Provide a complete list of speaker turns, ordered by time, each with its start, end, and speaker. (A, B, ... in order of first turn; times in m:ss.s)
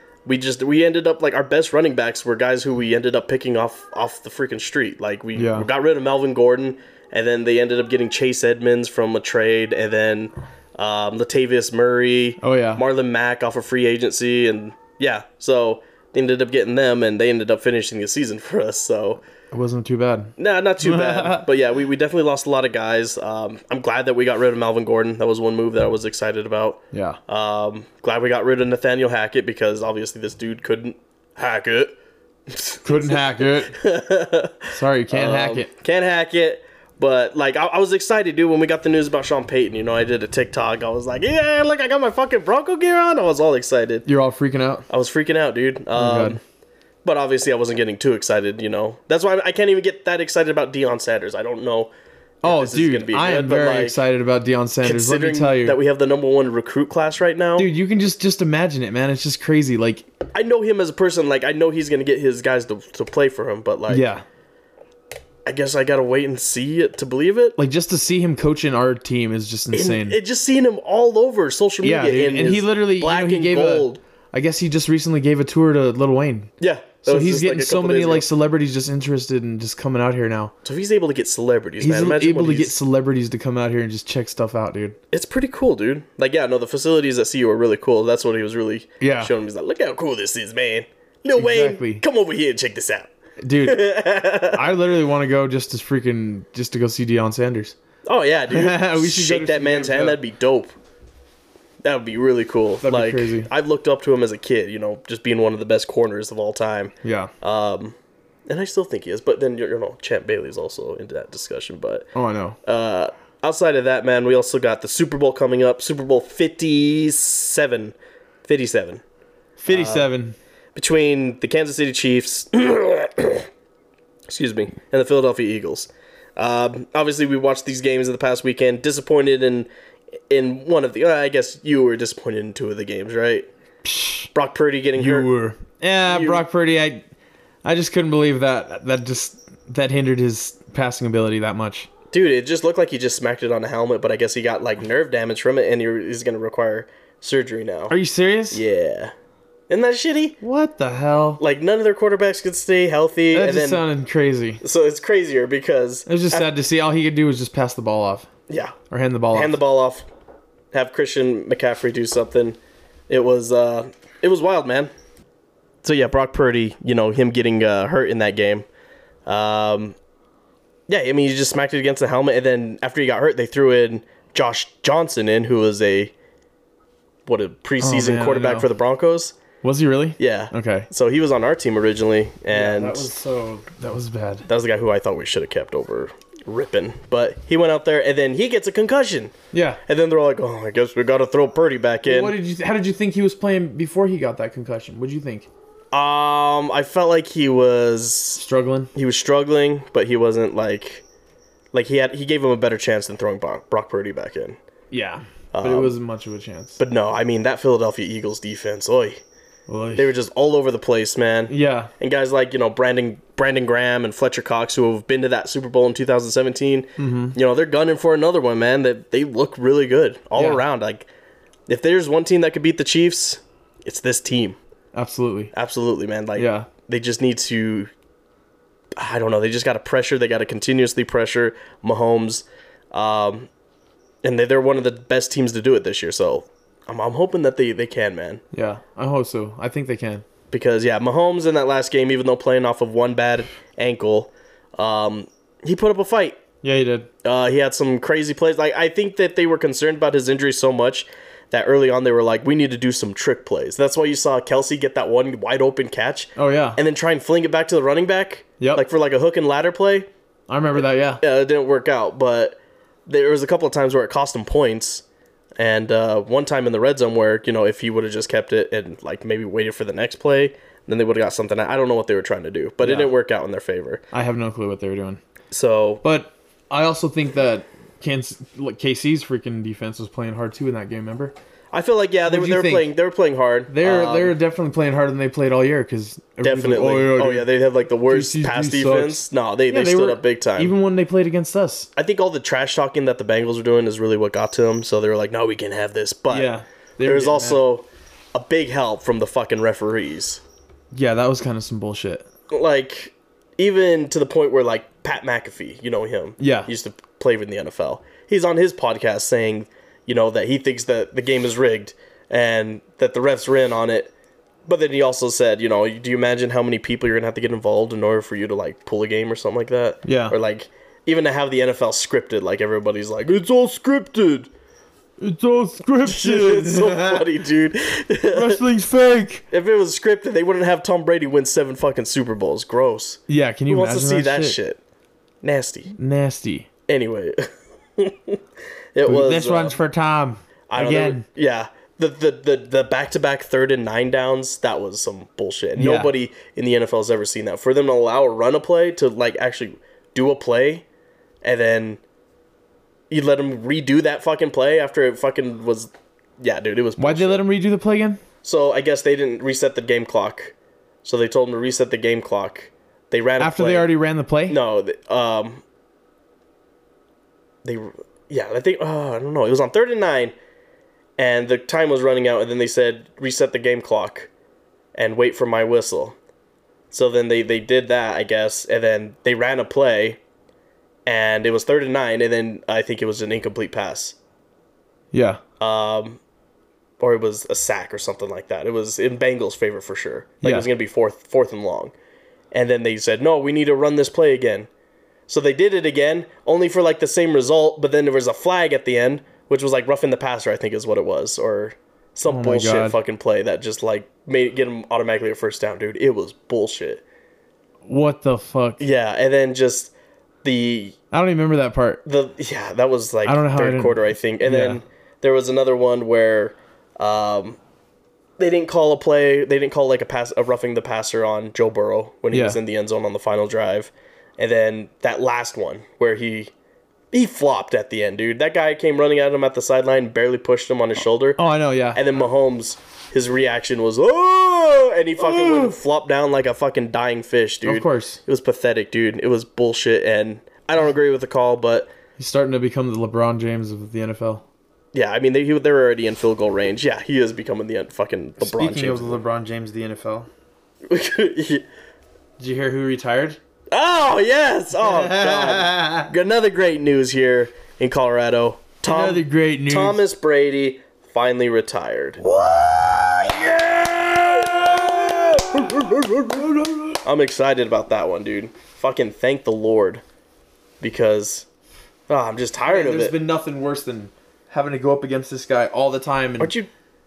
0:00.2-0:19.2 A
0:05.3-0:05.7 B
0:12.4-0:12.8 B
0:19.5-0:21.4 B
0:20.4-0:44.0 A
0:26.9-0:27.2 B
0:32.8-0:33.7 B
0:34.7-0:35.7 B
0:44.0-0:44.8 B
0:44.9-0:46.4 A
0:45.9-0:46.4 B
0:47.0-0:54.0 A
0:52.4-0:55.8 B
0:54.8-0:57.7 A
0:57.6-1:00.0 B
1:00.3-1:04.0 A
1:03.9-1:04.2 B
1:05.4-1:07.6 A
1:07.6-1:10.2 B
1:09.7-1:14.0 A
1:11.8-1:16.5 B
1:16.6-1:18.2 A
1:17.0-1:20.5 B
1:20.6-1:22.8 A
1:21.8-1:25.0 B
1:25.1-1:33.1 A
1:29.0-1:29.3 B
1:31.4-1:32.0 B
1:33.4-1:37.7 B
1:33.6-1:34.7 A
1:38.0-1:40.7 A
1:38.5-1:40.2 B
1:41.8-1:48.0 A
1:42.8-1:43.5 B
1:47.0-1:47.3 B
1:48.5-1:52.1 A
1:52.1-1:52.6 B
1:52.6-1:59.0 A
1:59.6-2:00.3 B
1:59.7-2:00.1 A
2:00.7-2:03.5 A
2:04.3-2:09.7 A
2:10.3-2:13.5 A
2:13.8-2:14.3 B
2:14.3-2:15.3 A
2:15.0-2:17.0 B
2:16.0-2:16.4 A
2:17.6-2:21.9 B
2:22.1-2:28.0 A
2:27.9-2:28.6 B
2:28.5-2:29.1 A
2:29.7-2:30.4 A
2:30.4-2:31.4 B
2:31.4-2:33.8 A
2:33.3-2:34.6 B
2:34.6-2:36.5 A
2:36.1-2:38.3 B
2:38.5-2:38.8 A
2:38.9-2:39.6 B
2:39.3-2:40.1 A
2:40.7-2:42.6 A
2:43.1-2:44.9 A
2:45.8-2:48.6 A
2:49.2-2:50.0 A
2:50.9-2:56.1 A
2:57.2-2:59.4 A
2:57.8-2:58.7 B
2:59.6-3:00.9 B
3:00.2-3:03.1 A
3:02.5-3:04.5 B
3:04.5-3:09.3 A
3:09.5-3:09.8 B
3:09.8-3:12.3 A
3:12.0-3:15.5 B
3:15.9-3:18.4 A
3:18.4-3:18.9 B
3:18.9-3:21.0 A
3:21.7-3:24.6 A
3:24.9-3:26.8 B
3:25.5-3:25.9 A
3:26.8-3:29.2 A
3:29.7-3:30.1 B
3:29.9-3:41.1 A
3:31.5-3:31.9 B
3:37.0-3:37.4 B
3:40.3-3:40.6 B
3:41.7-3:44.6 A
3:44.9-3:45.5 B
3:45.5-3:47.9 A
3:46.4-3:46.7 B
3:49.0-3:53.5 A
3:54.2-3:58.4 A
3:58.5-4:00.2 B
4:00.5-4:06.4 A
4:06.6-4:07.1 B
4:07.2-4:20.1 A
4:16.4-4:16.8 B
4:18.6-4:18.8 B
4:20.5-4:21.2 B
4:20.8-4:25.0 A
4:25.6-4:34.0 A
4:32.8-4:33.1 B
4:34.1-4:35.2 B
4:35.5-4:36.0 A
4:36.0-4:41.3 B
4:41.7-4:44.4 A
4:42.2-4:42.9 B
4:43.7-4:47.5 B
4:46.4-4:50.7 A
4:48.1-4:51.9 B
4:52.0-5:00.4 A
4:56.3-4:57.6 B
5:00.9-5:02.3 B
5:02.5-5:14.1 A
5:06.4-5:06.7 B
5:14.6-5:24.5 A
5:20.0-5:20.4 B
5:25.2-5:27.2 B
5:26.0-5:28.6 A
5:28.3-5:29.4 B
5:29.5-5:34.8 A
5:33.3-5:34.6 B
5:35.4-5:35.9 A
5:35.9-5:36.7 B
5:36.9-5:38.4 A
5:38.9-5:39.8 A
5:39.0-5:41.2 B
5:40.7-5:50.8 A
5:45.8-5:46.1 B
5:51.4-5:52.0 A
5:53.1-5:57.4 A
5:57.0-5:58.2 B
5:58.4-6:03.9 A
6:03.4-6:04.6 B
6:04.5-6:05.6 A
6:07.6-6:10.3 A
6:11.2-6:14.3 A
6:14.9-6:16.2 A
6:16.9-6:20.2 A
6:21.0-6:24.2 A
6:25.1-6:25.4 B
6:25.6-6:26.2 A
6:27.0-6:31.9 A
6:30.4-6:30.7 B
6:32.5-6:34.7 A
6:35.3-6:47.0 A
6:42.2-6:43.0 B
6:47.8-6:48.8 B
6:48.8-6:49.9 A
6:50.4-6:51.0 A
6:51.1-6:52.0 B
6:52.0-6:57.6 A
6:53.2-6:54.8 B
6:58.4-7:06.5 A
7:02.3-7:02.6 B
7:07.1-7:11.4 A
7:11.4-7:12.0 B
7:11.9-7:21.9 A
7:15.2-7:15.8 B
7:17.6-7:18.2 B
7:22.2-7:24.4 B
7:24.9-7:29.2 A
7:28.4-7:30.3 B
7:30.8-7:31.6 A
7:32.4-7:33.4 B
7:33.7-7:42.2 A
7:34.8-7:36.1 B
7:38.8-7:40.0 B
7:42.2-7:45.7 B
7:45.4-7:46.5 A
7:46.3-7:47.0 B
7:47.0-7:50.0 A
7:50.8-7:51.4 A
7:52.1-7:53.2 A
7:52.7-7:56.5 B
7:56.4-7:56.7 A